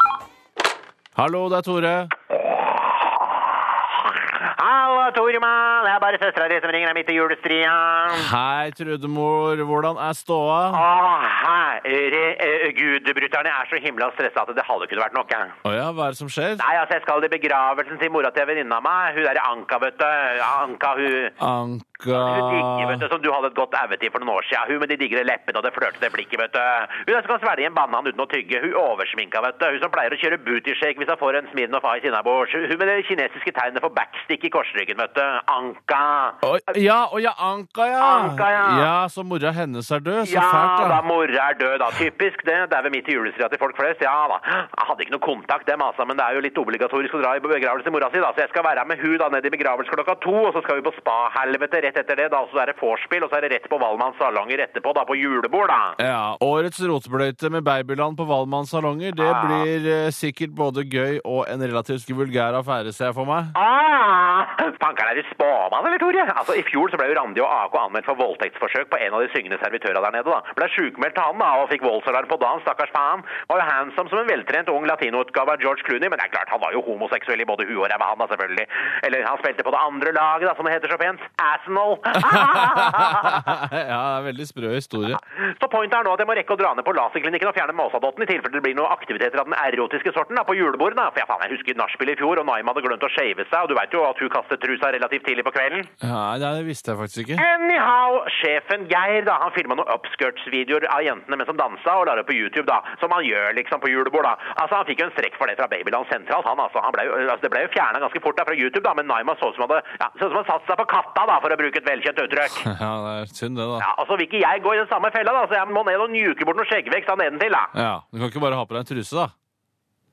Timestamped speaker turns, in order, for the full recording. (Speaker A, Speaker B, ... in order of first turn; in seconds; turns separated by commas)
Speaker A: 1.1-2.1, Speaker B: 2.3-8.3, Speaker A: 8.1-10.8, Speaker B: 10.7-15.6, Speaker A: 15.7-16.6, Speaker B: 16.6-21.4, Speaker A: 21.4-23.0, Speaker B: 22.1-36.4, Speaker A: 36.4-41.0, Speaker B: 38.0-38.9, Speaker B: 40.2-56.0, Speaker A: 56.0-63.5, Speaker B: 59.2-59.7, Speaker B: 63.5-83.5, Speaker A: 82.2-85.2, Speaker B: 85.3-95.9, Speaker A: 96.0-97.5, Speaker B: 97.4-112.6, Speaker A: 112.6-113.9, Speaker B: 113.8-117.7, Speaker A: 117.7-119.3